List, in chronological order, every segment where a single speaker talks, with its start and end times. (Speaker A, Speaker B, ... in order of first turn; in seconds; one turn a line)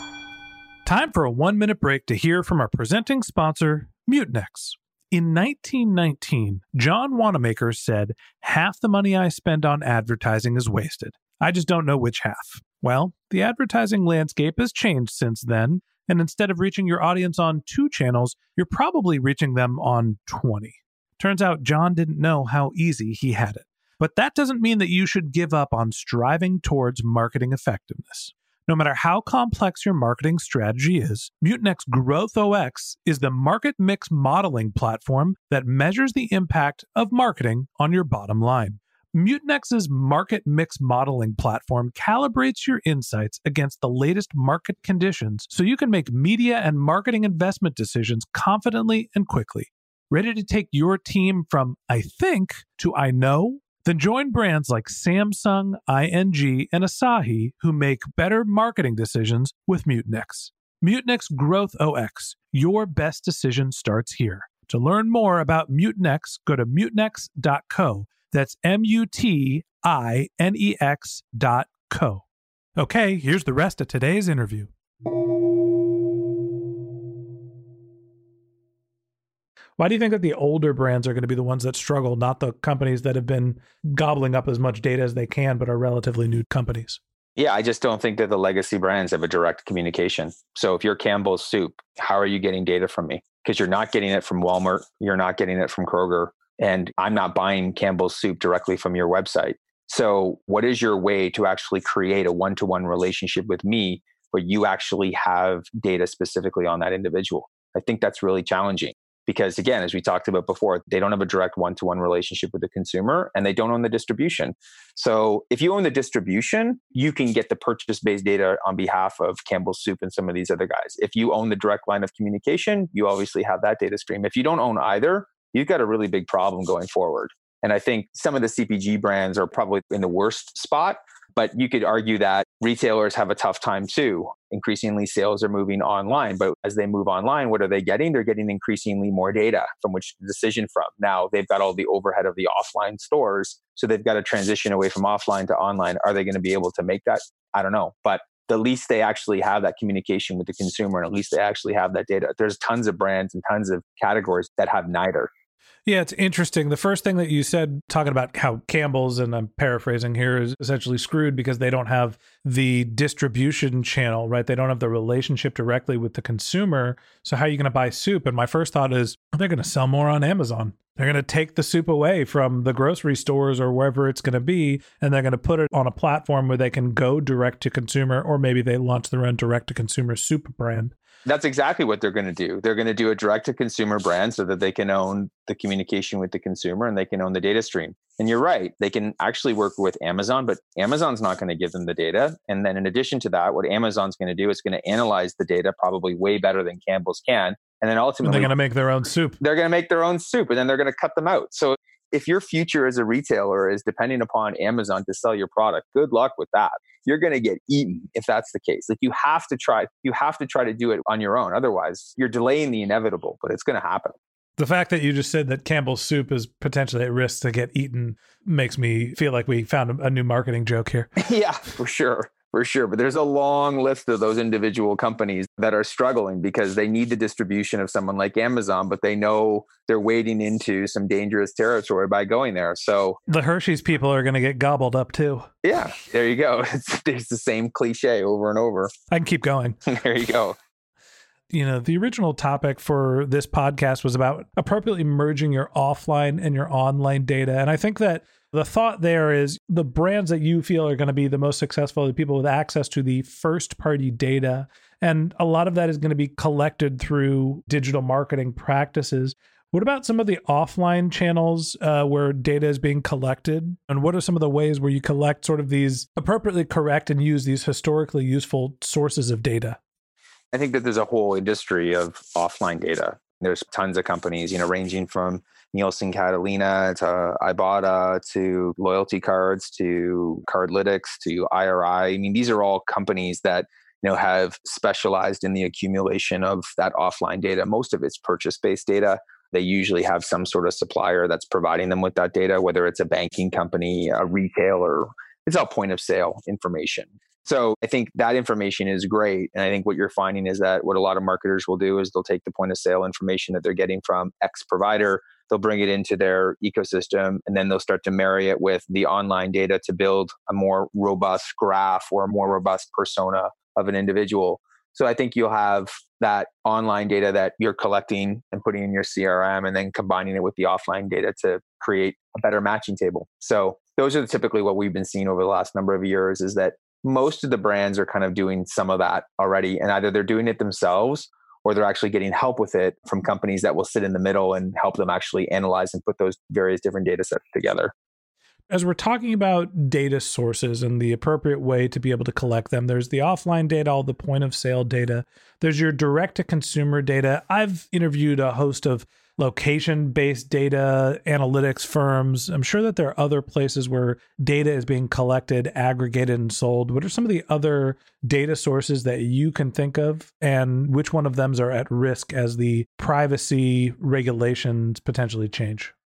Speaker A: 0.8-72.2
Speaker A: 72.8-74.7
Speaker A: 79.8-87.0
Speaker B: 87.3-155.3
Speaker A: 155.8-180.9
Speaker B: 181.2-198.5
Speaker A: 198.2-199.4
Speaker B: 199.4-214.1
Speaker A: 214.6-221.1
Speaker B: 221.2-233.2
Speaker A: 233.3-235.5
Speaker B: 235.6-238.9
Speaker A: 239.1-239.8
Speaker B: 239.8-240.6
Speaker A: 241.5-269.8
Speaker B: 270.5-337.9
Speaker A: 338.7-365.9